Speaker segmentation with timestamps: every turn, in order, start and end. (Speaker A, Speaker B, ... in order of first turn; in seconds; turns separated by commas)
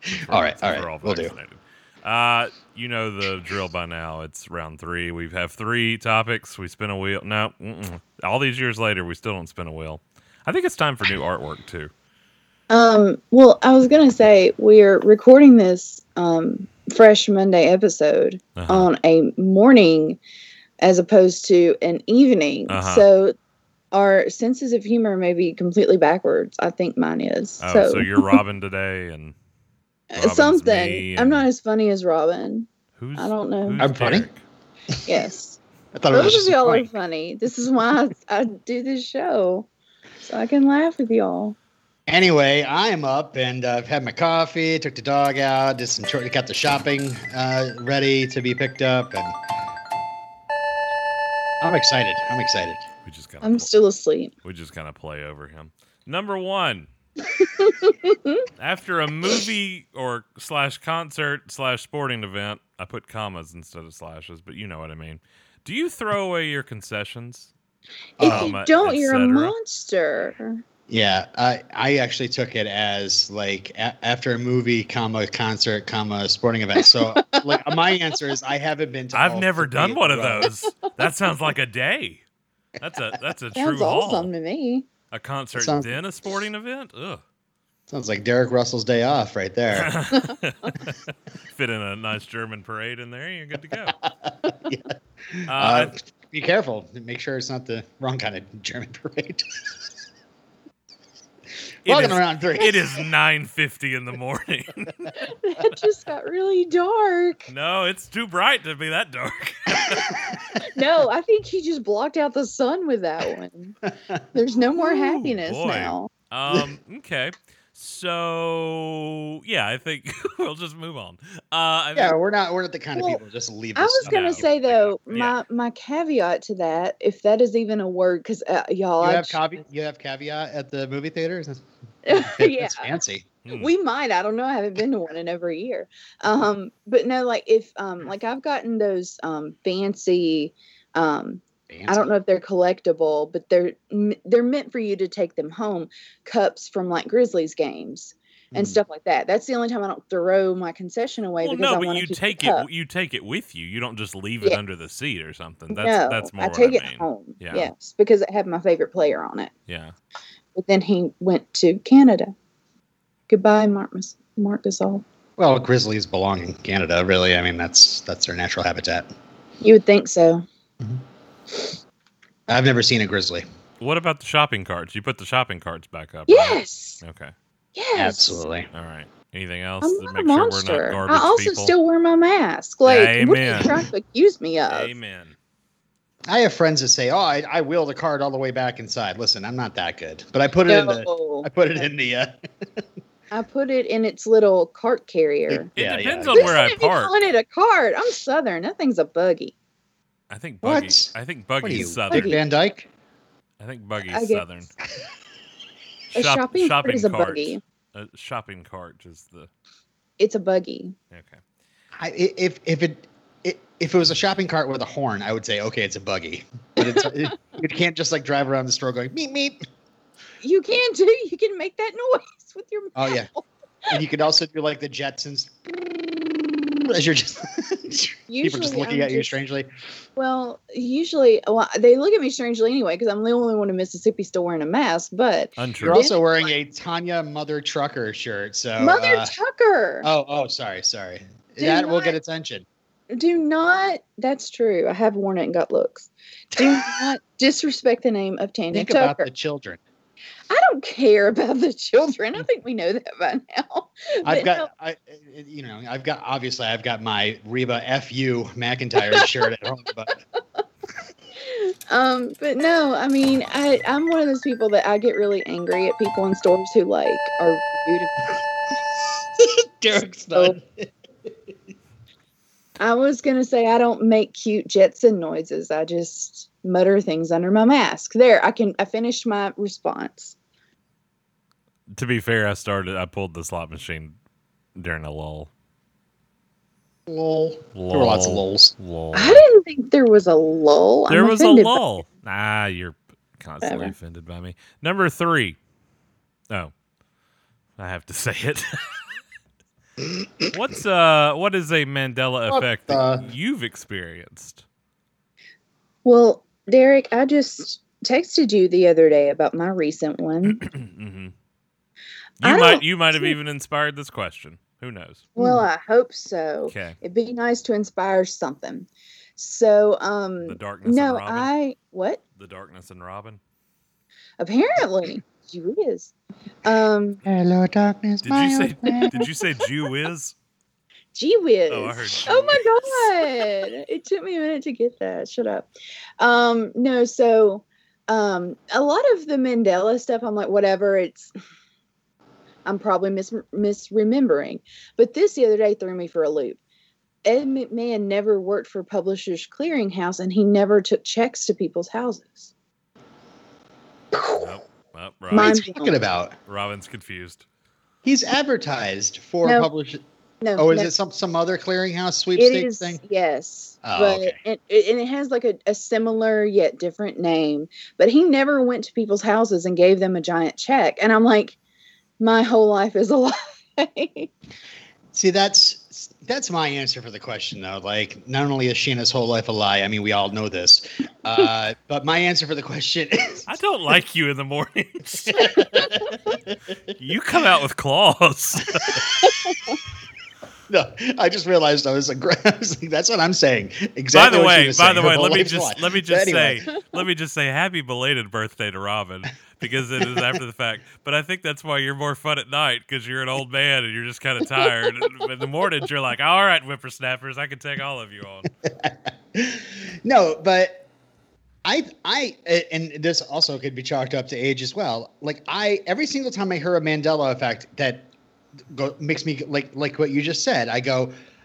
Speaker A: 0.3-11.9, Speaker B: 0.3-1.3, Speaker C: 12.7-20.2, Speaker A: 18.6-18.9, Speaker C: 20.8-23.4, Speaker A: 22.7-23.1, Speaker C: 23.9-28.4, Speaker A: 27.6-29.4, Speaker C: 30.1-33.9, Speaker A: 30.2-31.5, Speaker A: 33.0-34.4, Speaker B: 33.8-34.3, Speaker C: 35.1-35.6, Speaker B: 35.9-36.9, Speaker C: 36.1-39.7, Speaker C: 40.2-41.5, Speaker B: 42.1-49.4, Speaker B: 51.6-52.9, Speaker A: 53.0-53.7, Speaker C: 53.4-54.3, Speaker A: 54.4-56.9, Speaker C: 57.3-58.5, Speaker A: 58.6-67.5, Speaker C: 68.2-70.6, Speaker B: 68.2-68.6, Speaker A: 68.2-69.5, Speaker B: 70.9-80.5, Speaker C: 76.8-77.5, Speaker A: 79.1-82.2, Speaker A: 82.8-84.3, Speaker C: 83.5-84.9, Speaker A: 85.1-87.2, Speaker B: 85.5-86.0, Speaker B: 87.9-90.0, Speaker A: 89.7-94.0, Speaker B: 94.1-99.4, Speaker A: 95.5-95.9, Speaker B: 101.9-102.8, Speaker A: 101.9-105.3, Speaker C: 105.2-107.5, Speaker A: 107.5-110.1, Speaker B: 109.9-110.4, Speaker C: 110.6-113.8, Speaker B: 113.9-114.2, Speaker C: 114.3-116.1, Speaker A: 114.8-122.2, Speaker B: 122.0-124.5, Speaker C: 123.0-123.2, Speaker C: 123.8-129.4, Speaker A: 124.0-125.4, Speaker B: 129.0-133.3, Speaker C: 132.1-133.0, Speaker A: 133.4-133.7, Speaker C: 133.6-152.7, Speaker B: 141.7-142.1, Speaker B: 148.5-148.8, Speaker A: 151.4-157.7, Speaker C: 155.7-159.5, Speaker A: 159.7-159.9, Speaker C: 160.6-162.3, Speaker C: 163.3-165.0, Speaker B: 165.4-169.1, Speaker C: 169.6-170.4, Speaker B: 172.5-173.4, Speaker A: 173.8-177.3, Speaker C: 176.3-177.0, Speaker C: 177.8-178.4, Speaker B: 178.0-178.7, Speaker A: 178.7-181.7, Speaker C: 179.8-184.9, Speaker A: 182.9-183.9, Speaker A: 184.7-185.4, Speaker B: 186.3-192.8, Speaker C: 190.7-191.5, Speaker C: 193.3-195.7, Speaker B: 195.5-196.6, Speaker A: 195.8-197.2, Speaker C: 196.3-199.5, Speaker A: 200.3-202.4, Speaker B: 200.6-202.9, Speaker C: 202.1-202.4, Speaker A: 203.6-204.7, Speaker C: 204.1-204.4, Speaker A: 206.1-209.5, Speaker C: 206.1-207.6, Speaker C: 210.2-210.9, Speaker A: 211.1-211.4, Speaker B: 212.0-219.6, Speaker C: 216.8-217.4, Speaker C: 220.4-224.0, Speaker B: 223.0-223.3, Speaker B: 223.9-229.7, Speaker C: 228.3-229.4, Speaker C: 230.2-236.5, Speaker A: 235.6-236.0, Speaker B: 235.8-239.3, Speaker C: 238.8-240.1, Speaker B: 240.0-242.7, Speaker C: 241.6-242.2, Speaker C: 243.1-249.3, Speaker B: 246.6-247.1, Speaker B: 248.7-249.8, Speaker C: 250.5-254.7, Speaker B: 254.2-260.1, Speaker C: 259.1-259.4, Speaker C: 261.4-268.2, Speaker B: 269.4-270.9, Speaker C: 272.8-280.4, Speaker A: 281.9-284.2, Speaker A: 284.8-285.5, Speaker B: 287.1-288.7, Speaker A: 287.8-289.4, Speaker C: 289.1-291.9, Speaker A: 291.1-295.6, Speaker C: 293.6-293.9, Speaker A: 297.8-299.1, Speaker A: 300.5-304.6, Speaker B: 302.5-303.3, Speaker C: 306.1-310.6, Speaker A: 310.4-311.3, Speaker A: 312.4-315.3, Speaker C: 312.4-313.4, Speaker C: 315.4-322.2, Speaker B: 315.4-315.6, Speaker A: 316.7-317.0, Speaker A: 320.4-321.5, Speaker A: 322.4-323.4, Speaker C: 324.4-327.2, Speaker B: 327.3-329.3, Speaker A: 328.2-330.4, Speaker C: 331.1-341.3, Speaker A: 331.7-333.5, Speaker C: 342.6-346.6, Speaker C: 347.2-352.5, Speaker C: 354.1-354.6, Speaker A: 354.4-355.6, Speaker C: 355.3-356.0, Speaker B: 355.3-356.4, Speaker A: 356.5-357.4, Speaker B: 358.0-360.0, Speaker C: 359.4-359.7, Speaker C: 360.4-360.9, Speaker B: 360.6-363.0, Speaker C: 362.4-371.6, Speaker B: 363.8-364.4, Speaker C: 372.2-374.3, Speaker B: 375.1-383.6, Speaker A: 383.5-385.6, Speaker B: 385.3-386.8, Speaker A: 387.0-389.1, Speaker C: 389.2-389.8, Speaker B: 390.7-396.7, Speaker A: 394.1-408.5, Speaker B: 408.6-410.9, Speaker B: 411.6-418.1, Speaker B: 418.7-421.1